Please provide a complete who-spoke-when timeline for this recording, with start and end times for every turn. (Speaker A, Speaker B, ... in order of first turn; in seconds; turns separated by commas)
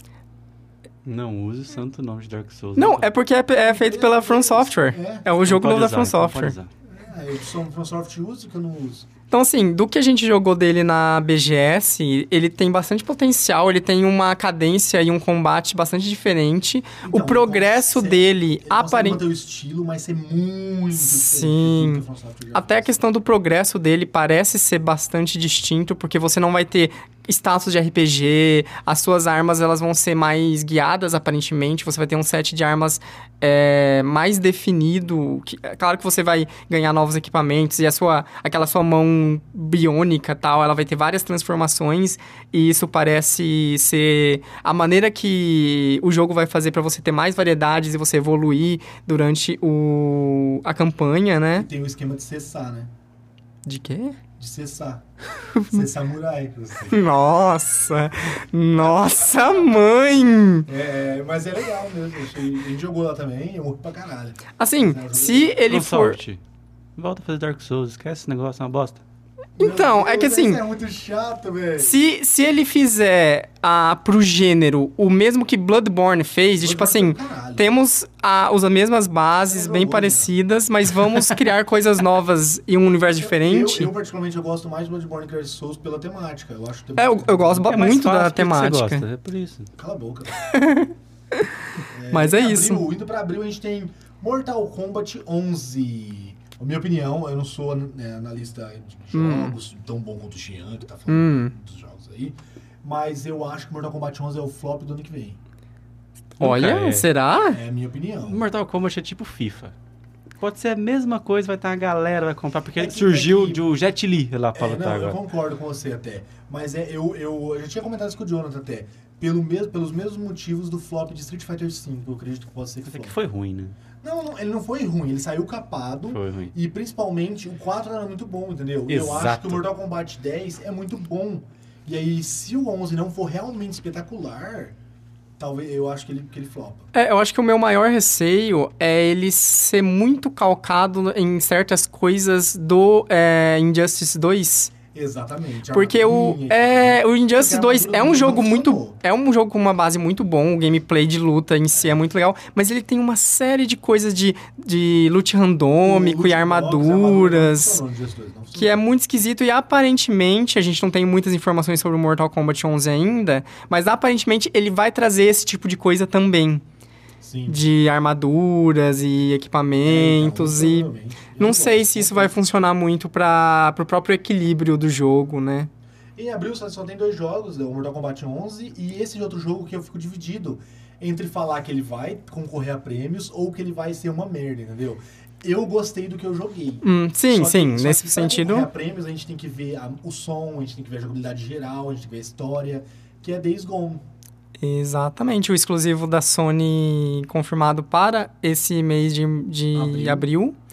Speaker A: 1.0-3.1, Speaker B: 2.8-6.5, Speaker C: 3.6-5.3, Speaker A: 5.4-6.7, Speaker C: 6.9-9.1, Speaker B: 9.3-19.2, Speaker C: 17.0-23.0, Speaker B: 20.9-22.0, Speaker B: 22.5-51.7, Speaker C: 51.5-52.9, Speaker B: 53.6-54.2, Speaker C: 54.4-55.0, Speaker B: 55.5-55.8, Speaker C: 55.7-57.0, Speaker B: 56.9-60.7, Speaker C: 58.8-59.8, Speaker C: 60.6-65.6, Speaker B: 64.6-66.2, Speaker A: 65.7-66.4, Speaker A: 67.0-69.0, Speaker C: 69.6-72.0, Speaker B: 69.6-70.6, Speaker B: 71.8-83.9, Speaker C: 76.6-77.7, Speaker C: 79.5-80.3, Speaker C: 83.1-88.0, Speaker B: 87.0-89.0, Speaker A: 87.7-89.7, Speaker C: 89.8-90.5, Speaker B: 90.5-91.5, Speaker C: 91.9-105.4, Speaker B: 92.1-92.9, Speaker B: 99.1-99.5, Speaker B: 101.1-101.5, Speaker A: 106.4-107.1, Speaker B: 106.4-107.6, Speaker C: 107.4-108.4, Speaker A: 108.3-109.7, Speaker A: 110.4-115.2, Speaker C: 112.8-113.6, Speaker C: 114.5-123.2, Speaker A: 122.8-123.8, Speaker C: 124.0-134.8, Speaker A: 126.1-126.5, Speaker A: 128.9-129.6, Speaker C: 135.4-136.9, Speaker B: 136.9-144.7, Speaker C: 144.9-149.0, Speaker B: 145.7-157.8, Speaker C: 151.7-152.0, Speaker C: 155.8-158.8, Speaker B: 158.5-166.6, Speaker C: 167.2-167.7, Speaker B: 167.5-175.7, Speaker C: 169.8-172.3, Speaker C: 176.2-194.0, Speaker B: 186.8-188.7, Speaker B: 194.6-200.6, Speaker C: 199.7-200.3